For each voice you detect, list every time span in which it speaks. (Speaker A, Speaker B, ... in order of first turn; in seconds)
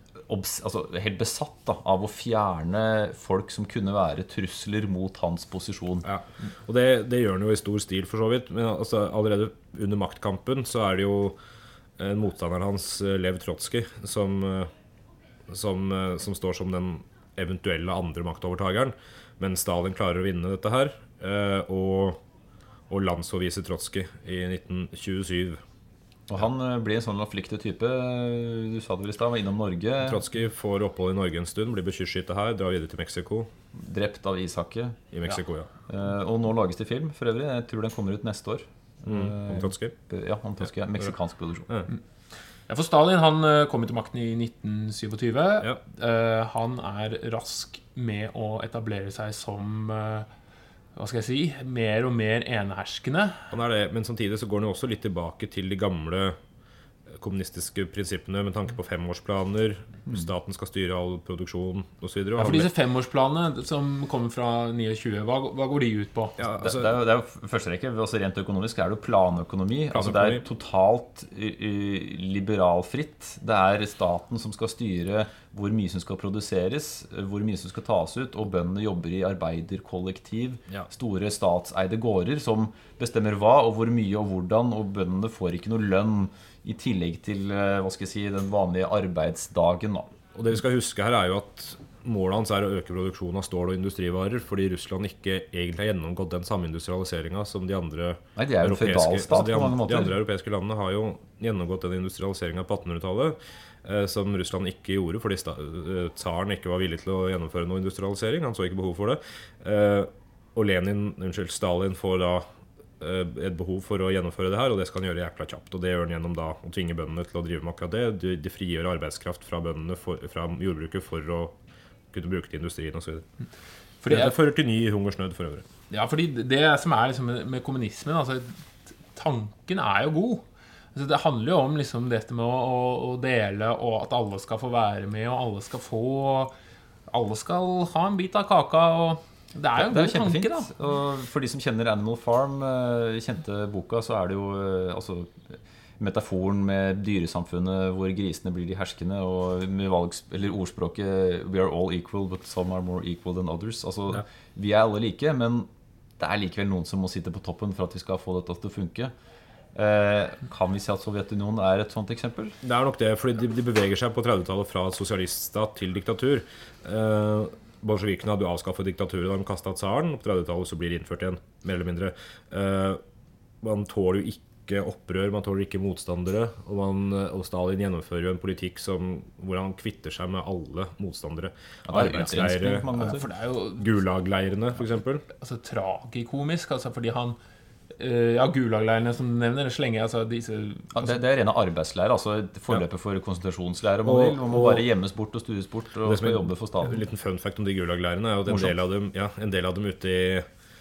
Speaker A: 0.3-6.0, 26.3-30.2, 33.7-35.0, 35.9-41.7, 66.6-90.1, 98.4-100.2, 139.8-159.1, 159.7-162.6, 181.9-183.2, 190.9-197.0, 198.5-198.7
Speaker B: 6.0-11.4, 12.0-14.7, 15.5-22.2, 22.9-25.6, 30.0-33.5, 35.1-35.7, 39.1-39.9, 53.5-56.4, 57.1-62.7, 66.4-66.9, 69.9-70.4, 90.3-112.5, 113.0-121.5, 122.1-123.2, 124.1-125.7, 162.6-173.0, 173.6-183.2, 183.8-185.2, 194.0-194.9, 196.0-200.5
Speaker C: 42.7-50.3, 51.0-53.5, 62.4-66.4, 124.0-124.3, 125.9-136.5, 137.1-140.7, 181.9-182.3, 183.1-183.9, 185.3-187.4, 188.0-191.1